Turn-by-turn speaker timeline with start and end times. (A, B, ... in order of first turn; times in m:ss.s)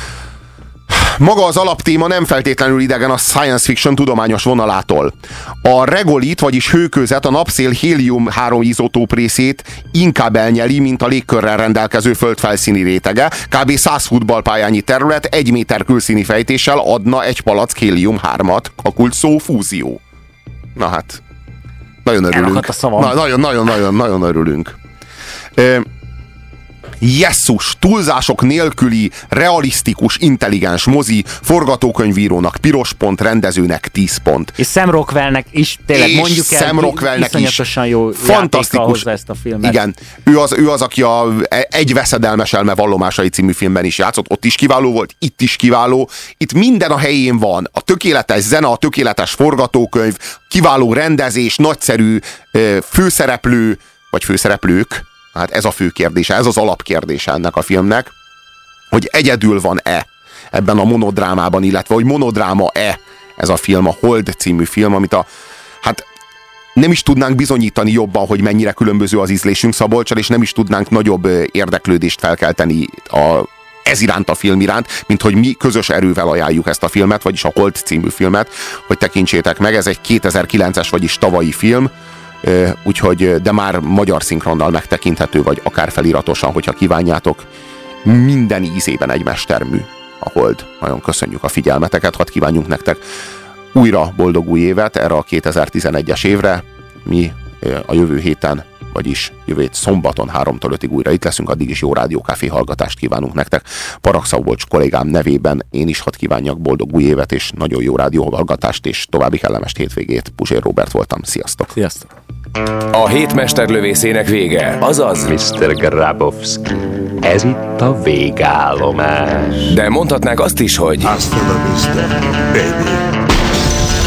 0:00.9-0:20.0 A
0:20.8-0:21.2 A
0:22.0-0:24.8 A
0:22.3-0:23.2 B
0:25.6-0:25.9 A
0:27.0-0:34.6 A
0:34.6-0:39.8 B
0:35.9-0:37.6 A
0:38.2-0:39.1 A
0:39.6-0:58.1 A
0:58.9-1:05.3 A
1:06.8-1:21.9 A
1:22.4-1:27.5 A
1:28.0-1:33.0 A
1:33.7-1:51.7 A
1:51.8-1:52.0 B
1:52.9-1:55.3 C
1:55.2-1:59.8 D
1:59.7-2:01.2 C
2:01.0-2:03.0 E